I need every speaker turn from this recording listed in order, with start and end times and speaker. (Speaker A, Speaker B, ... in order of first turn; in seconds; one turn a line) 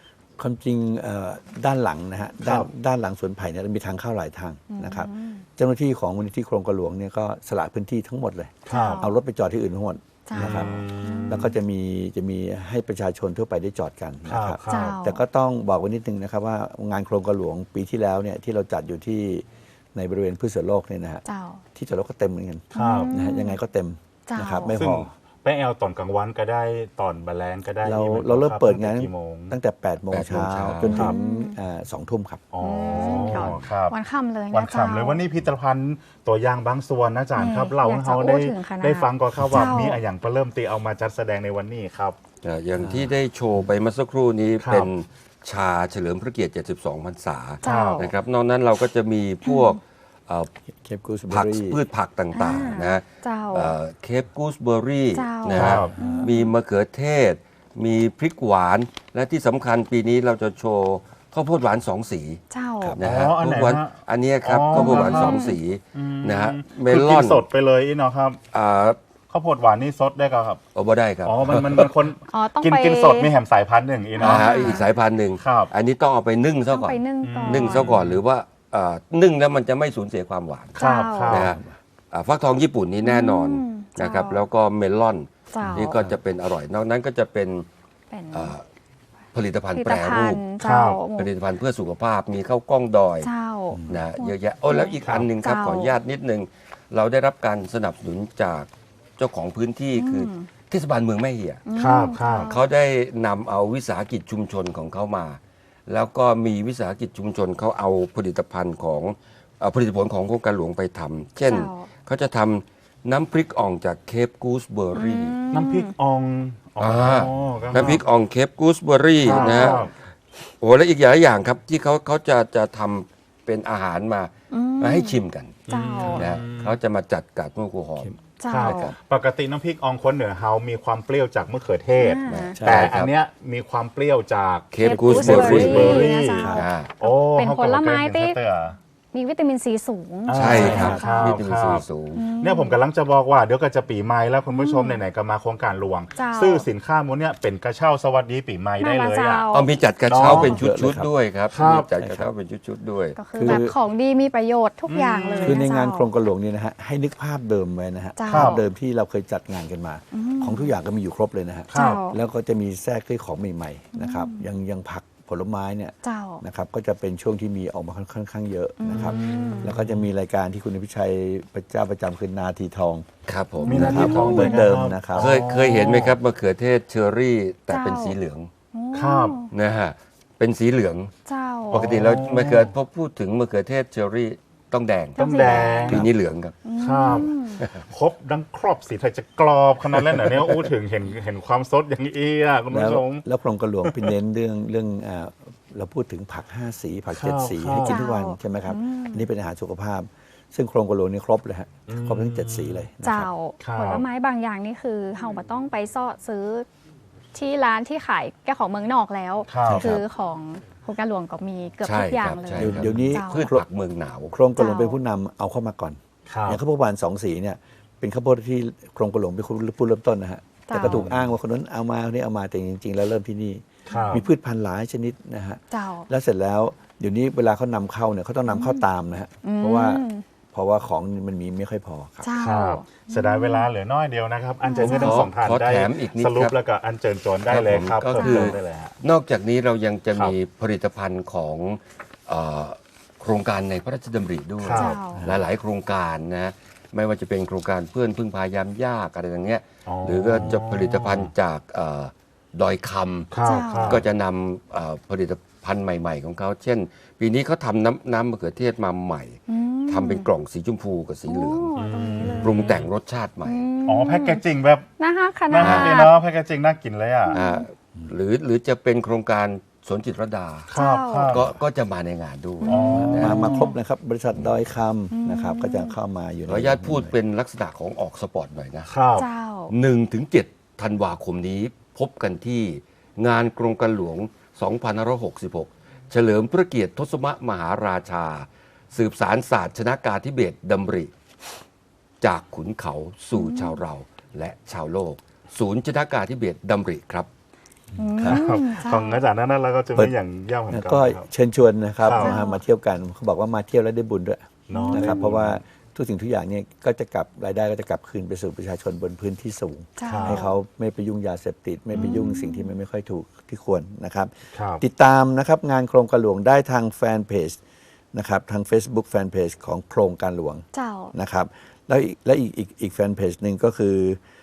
Speaker A: 0.4-21.2
Speaker B: 2.4-2.7
Speaker C: 4.7-5.5
Speaker B: 8.7-9.0
Speaker C: 8.7-9.1
Speaker C: 10.2-11.5
Speaker B: 10.3-11.5
Speaker B: 14.2-15.0
Speaker C: 14.7-15.2
Speaker C: 21.2-21.6
Speaker A: 21.7-25.1
Speaker B: 22.7-23.1
Speaker C: 22.7-23.6
Speaker C: 24.3-24.8
Speaker B: 24.7-29.6
Speaker A: 27.8-32.5
Speaker D: 30.1-30.9
Speaker B: 30.9-31.1
Speaker C: 30.9-31.6
Speaker B: 32.5-34.0
Speaker C: 32.6-35.2
Speaker A: 33.0-33.4
Speaker B: 34.5-42.2
Speaker C: 37.4-40.0
Speaker D: 42.4-50.5
Speaker A: 42.8-43.1
Speaker B: 44.6-44.9
Speaker C: 47.6-48.1
Speaker B: 47.6-48.0
Speaker C: 49.4-49.8
Speaker A: 50.8-51.8
Speaker D: 51.3-62.4
Speaker C: 52.3-53.7
Speaker C: 55.1-56.5
Speaker B: 55.5-55.9
Speaker A: 55.9-56.3
Speaker C: 62.5-63.0
Speaker D: 62.9-67.4
Speaker B: 63.0-68.4
Speaker C: 64.7-65.6
Speaker D: 68.5-69.0
Speaker B: 69.3-70.6
Speaker D: 70.7-71.9
Speaker B: 71.2-74.8
Speaker C: 72.3-73.3
Speaker C: 74.2-74.8
Speaker D: 74.2-80.8
Speaker B: 75.4-75.7
Speaker C: 76.7-77.9
Speaker B: 77.2-78.2
Speaker B: 80.7-81.5
Speaker C: 80.8-81.5
Speaker D: 81.3-81.6
Speaker A: 81.3-81.7
Speaker D: 82.1-87.7
Speaker C: 83.0-84.4
Speaker C: 85.5-86.0
Speaker A: 85.6-86.1
Speaker C: 88.1-88.5
Speaker D: 88.3-88.6
Speaker D: 89.3-90.4
Speaker C: 89.7-91.3
Speaker B: 90.6-91.0
Speaker D: 91.2-93.3
Speaker C: 93.2-95.9
Speaker A: 93.7-94.0
Speaker D: 93.9-101.6
Speaker B: 95.0-95.3
Speaker C: 100.0-100.5
Speaker C: 101.7-102.7
Speaker B: 101.7-102.5
Speaker D: 102.4-115.3
Speaker C: 111.4-111.9
Speaker C: 114.9-115.9
Speaker B: 115.5-118.0
Speaker D: 116.8-119.9
Speaker B: 119.2-119.9
Speaker C: 119.3-119.9
Speaker D: 120.6-128.9
Speaker C: 124.5-126.3
Speaker B: 125.7-126.8
Speaker B: 128.0-138.8
Speaker C: 128.4-128.9
Speaker C: 132.0-132.6
Speaker D: 132.3-133.1
Speaker A: 132.5-133.0
Speaker D: 134.7-136.9
Speaker C: 134.8-138.4
Speaker A: 134.9-136.6
Speaker C: 139.1-141.4
Speaker B: 140.3-141.8
Speaker D: 140.3-142.2
Speaker A: 140.5-141.0
Speaker C: 142.1-142.8
Speaker B: 142.4-149.4
Speaker C: 144.5-145.0
Speaker C: 146.1-146.7
Speaker C: 148.8-149.7
Speaker D: 149.5-153.6
Speaker B: 150.1-150.7
Speaker A: 150.2-151.1
Speaker B: 151.5-151.9
Speaker A: 152.0-152.3
Speaker C: 153.2-156.1
Speaker A: 153.3-153.7
Speaker B: 154.9-155.6
Speaker A: 155.4-173.1
Speaker C: 158.2-158.6
Speaker B: 158.3-158.6
Speaker C: 160.1-160.7
Speaker C: 161.7-162.2
Speaker B: 161.7-162.0
Speaker C: 163.9-164.5
Speaker C: 166.0-166.4
Speaker C: 168.8-169.7
Speaker B: 168.9-170.0
Speaker D: 173.3-174.4
Speaker C: 173.6-174.7
Speaker A: 173.7-175.3
Speaker B: 173.7-176.2
Speaker D: 175.1-178.5
Speaker C: 177.7-178.2
Speaker C: 178.7-179.5
Speaker B: 178.9-179.4
Speaker D: 179.5-181.1
Speaker C: 181.2-181.9
Speaker B: 181.7-182.7
Speaker D: 181.7-187.8
Speaker C: 185.2-186.1
Speaker B: 185.2-186.1
Speaker C: 186.6-187.6
Speaker B: 186.8-193.2
Speaker A: 192.7-203.3
Speaker B: 193.8-194.1
Speaker B: 197.1-198.1
Speaker C: 197.8-199.3
Speaker B: 201.9-202.9
Speaker C: 203.0-206.7
Speaker B: 203.6-204.1
Speaker C: 207.3-213.5
Speaker B: 209.5-210.0
Speaker A: 209.6-210.0
Speaker D: 211.8-214.3
Speaker A: 212.6-213.6
Speaker A: 214.3-232.3
Speaker C: 214.6-215.0
Speaker B: 216.3-216.6
Speaker C: 220.7-221.1
Speaker B: 220.7-221.3
Speaker C: 223.9-224.2
Speaker B: 223.9-224.2
Speaker C: 225.7-226.1
Speaker C: 228.5-228.8
Speaker C: 229.4-230.2
Speaker C: 232.2-233.7
Speaker B: 232.3-238.9
Speaker C: 234.6-235.2
Speaker D: 234.8-236.5
Speaker D: 237.5-263.6
Speaker C: 238.2-238.6
Speaker B: 244.6-245.0
Speaker C: 244.7-245.2
Speaker B: 249.8-251.3
Speaker B: 253.3-254.0
Speaker C: 253.4-254.0
Speaker C: 259.5-260.3
Speaker C: 261.3-262.7
Speaker B: 261.8-262.9
Speaker C: 263.4-264.4
Speaker B: 263.9-264.9
Speaker C: 265.0-266.2
Speaker B: 265.5-267.4
Speaker D: 265.6-266.0
Speaker C: 267.3-267.6
Speaker D: 267.3-270.7
Speaker B: 270.7-271.5
Speaker C: 270.7-271.4
Speaker D: 271.3-273.4
Speaker C: 272.6-273.7
Speaker B: 272.6-273.6
Speaker A: 273.1-277.1
Speaker C: 275.1-275.9
Speaker D: 276.5-278.9
Speaker B: 278.9-279.3
Speaker C: 279.1-279.7
Speaker D: 279.7-291.1
Speaker D: 292.2-297.3
Speaker C: 293.3-293.8
Speaker C: 298.0-299.2
Speaker A: 298.1-298.4
Speaker B: 298.2-301.3
Speaker A: 300.7-317.6
Speaker B: 302.0-302.4
Speaker C: 302.1-302.6
Speaker B: 304.7-305.6
Speaker C: 304.7-305.3
Speaker C: 310.0-310.6
Speaker B: 310.1-310.4
Speaker C: 311.9-312.7
Speaker B: 314.5-314.8
Speaker A: 318.1-324.2
Speaker C: 320.7-321.1